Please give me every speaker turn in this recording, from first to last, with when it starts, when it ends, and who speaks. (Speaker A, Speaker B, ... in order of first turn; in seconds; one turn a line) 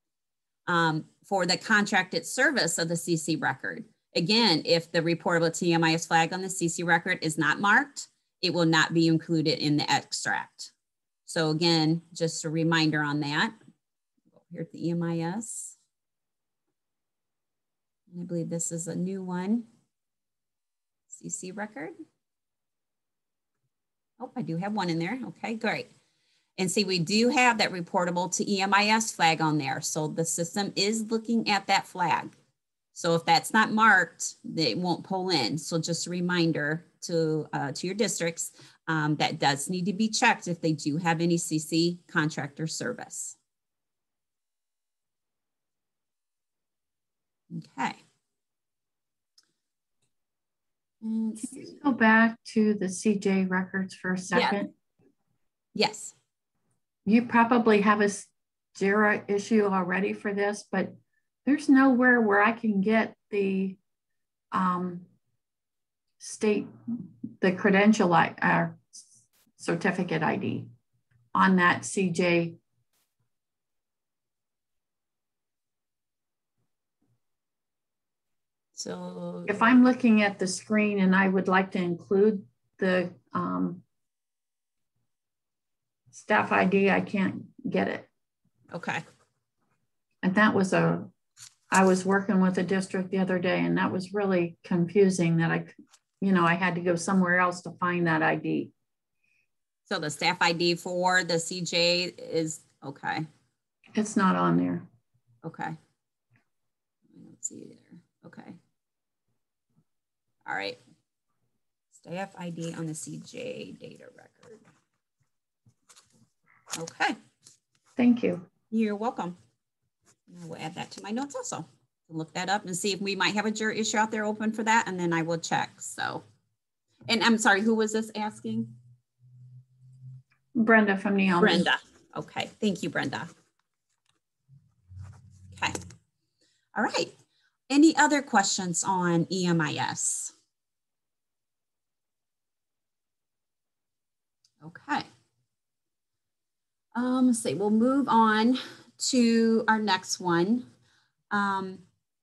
Speaker A: 0.7-10.7
Speaker A: 11.3-13.6
Speaker A: 14.4-15.8
Speaker A: 18.1-19.7
Speaker A: 21.1-21.9
Speaker A: 24.2-25.9
Speaker A: 26.6-32.4
Speaker A: 32.9-43.4
Speaker A: 47.5-48.0
Speaker A: 51.0-51.8
Speaker B: 51.4-54.7
Speaker A: 54.3-54.6
Speaker A: 55.8-56.1
Speaker B: 57.1-63.8
Speaker B: 64.5-65.1
Speaker B: 66.2-66.7
Speaker B: 67.4-68.9
Speaker B: 69.6-70.7
Speaker B: 71.3-72.6
Speaker A: 78.8-79.6
Speaker B: 79.5-83.8
Speaker B: 86.1-88.1
Speaker A: 88.7-89.0
Speaker B: 90.2-91.1
Speaker B: 91.7-98.7
Speaker A: 99.9-103.3
Speaker B: 104.0-104.9
Speaker A: 105.4-105.8
Speaker A: 107.1-108.6
Speaker A: 110.5-110.8
Speaker A: 111.9-114.6
Speaker A: 116.7-117.2
Speaker B: 118.0-118.5
Speaker A: 118.7-119.4
Speaker A: 120.3-126.2
Speaker A: 127.1-128.8
Speaker B: 130.6-131.7
Speaker A: 131.4-133.3
Speaker A: 135.5-135.8
Speaker A: 136.8-137.1
Speaker A: 137.7-140.3
Speaker A: 144.6-145.1
Speaker A: 146.9-150.7
Speaker A: 151.3-151.8